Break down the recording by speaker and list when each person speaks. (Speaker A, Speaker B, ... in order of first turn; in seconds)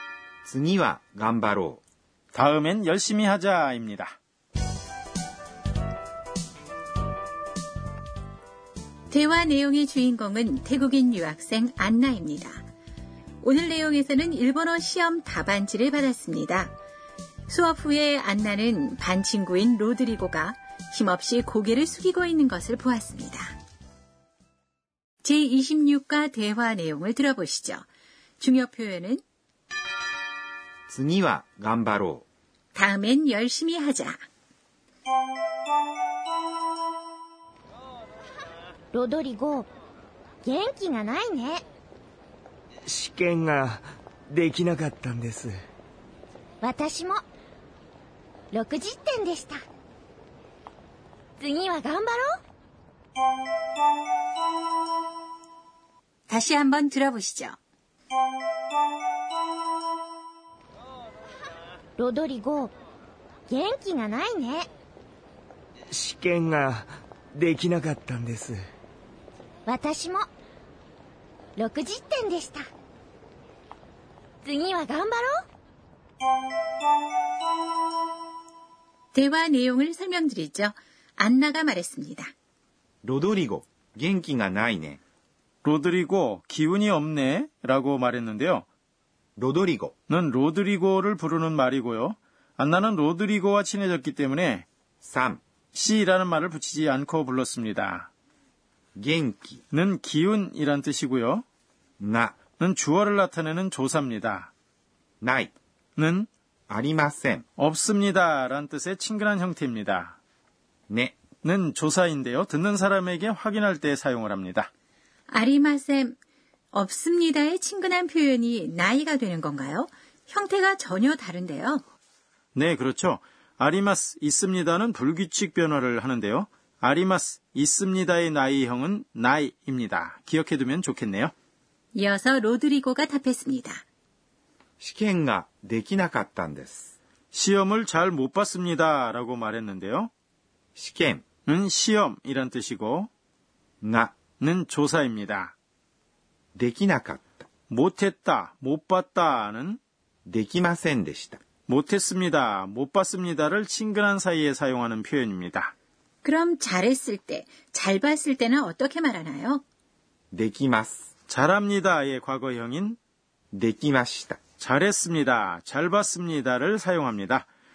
Speaker A: 0.5-1.8, 30.9-32.2, 83.0-85.0, 89.4-89.9, 95.0-95.4, 99.0-99.6, 102.0-102.4, 105.2-105.5, 106.7-107.4, 110.9-111.2, 134.8-136.9, 140.8-141.2, 143.8-144.1, 146.5-147.4, 150.2-151.4, 160.3-161.1, 163.5-164.4
Speaker B: 2.3-4.2, 85.6-88.7, 90.1-94.7, 95.8-98.1, 99.7-101.4, 102.6-104.5, 106.0-106.3, 107.6-110.2, 111.4-114.7, 122.5-131.3, 137.3-140.1, 141.4-143.1, 144.4-145.5, 147.7-149.8, 151.7-155.7, 161.3-163.0, 164.6-167.4
Speaker C: 9.1-12.6, 13.4-16.7, 17.5-23.5, 25.2-27.8, 28.4-29.2, 32.7-34.2, 56.3-57.6, 79.1-82.3, 115.3-116.2, 116.7-121.8, 131.9-133.8, 156.2-159.6
Speaker D: 38.9-39.7, 40.4-41.6, 46.6-47.2, 48.5-49.6, 51.4-52.4, 62.0-62.7, 63.5-64.7, 69.7-70.3, 71.6-72.7, 74.4-75.4
Speaker E: 42.9-45.5, 65.9-68.6